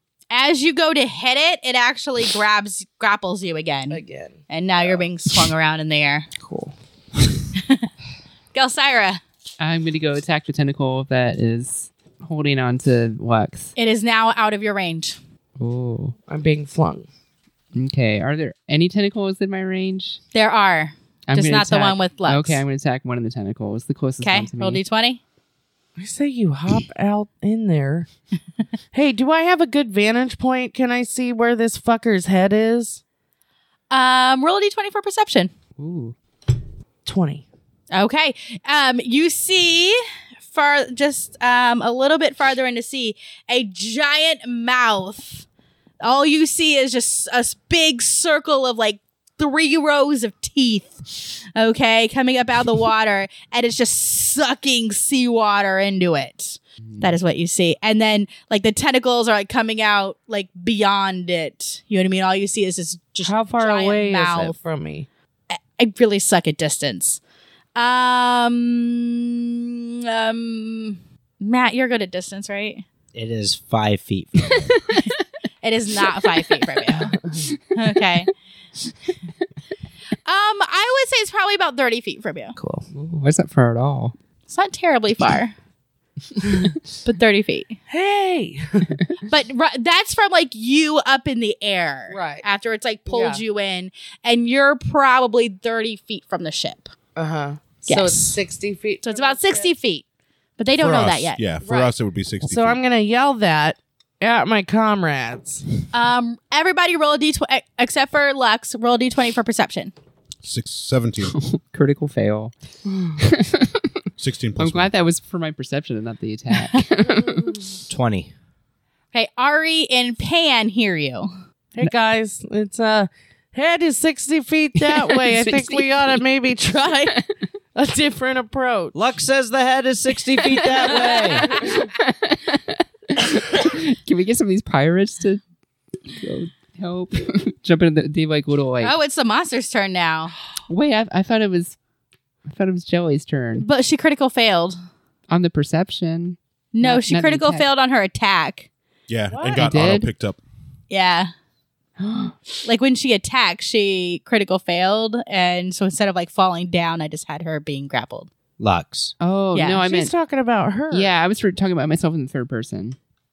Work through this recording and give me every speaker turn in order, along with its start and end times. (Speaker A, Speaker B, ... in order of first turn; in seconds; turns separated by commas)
Speaker A: 0.3-6.3, Speaker B: 3.9-5.1, Speaker B: 6.4-6.7, Speaker A: 7.5-7.9, Speaker A: 8.5-9.2, Speaker C: 9.6-13.7, Speaker A: 13.8-15.2, Speaker C: 15.6-16.1, Speaker B: 16.3-17.1, Speaker C: 17.7-20.2, Speaker A: 20.3-22.6, Speaker C: 21.3-24.8, Speaker A: 24.2-25.2, Speaker B: 26.0-28.1, Speaker B: 28.9-33.0, Speaker A: 33.9-35.5, Speaker C: 35.8-36.1, Speaker B: 37.0-37.4, Speaker A: 37.9-45.5, Speaker A: 46.0-64.5, Speaker B: 63.2-65.1, Speaker A: 65.5-67.2, Speaker A: 67.8-72.8, Speaker D: 73.1-74.8, Speaker A: 75.6-77.2, Speaker B: 77.2-77.5, Speaker A: 77.7-78.3, Speaker A: 80.2-82.5, Speaker B: 82.5-82.8, Speaker C: 82.9-84.1, Speaker A: 84.5-85.5, Speaker A: 87.0-87.8, Speaker B: 87.9-89.0, Speaker A: 89.2-96.9, Speaker B: 92.1-92.4, Speaker B: 93.1-93.4, Speaker B: 97.2-99.7, Speaker A: 97.9-98.4, Speaker A: 99.0-100.0, Speaker A: 100.6-101.5, Speaker E: 100.8-102.8, Speaker B: 101.6-101.9, Speaker B: 102.4-105.6, Speaker A: 105.9-109.9, Speaker E: 110.4-111.4, Speaker C: 111.3-112.5, Speaker B: 112.9-113.2, Speaker C: 113.2-113.8, Speaker E: 114.2-114.9, Speaker C: 114.6-117.4, Speaker B: 117.1-117.7, Speaker D: 117.9-118.3, Speaker A: 119.1-121.3, Speaker B: 121.7-127.2, Speaker C: 124.8-126.2, Speaker B: 127.7-128.9, Speaker D: 128.9-131.5, Speaker C: 130.4-135.4, Speaker C: 136.1-138.9, Speaker A: 138.8-140.3, Speaker C: 140.7-141.8, Speaker C: 142.4-143.7, Speaker A: 143.6-144.8, Speaker C: 145.3-147.7, Speaker A: 146.7-148.7, Speaker E: 149.1-150.4, Speaker B: 149.3-149.7, Speaker C: 149.6-150.1, Speaker A: 150.9-151.3, Speaker C: 152.0-152.3, Speaker A: 152.6-158.3, Speaker D: 158.6-159.1, Speaker C: 159.2-160.1, Speaker A: 159.5-159.8, Speaker B: 159.8-161.1, Speaker C: 160.9-162.9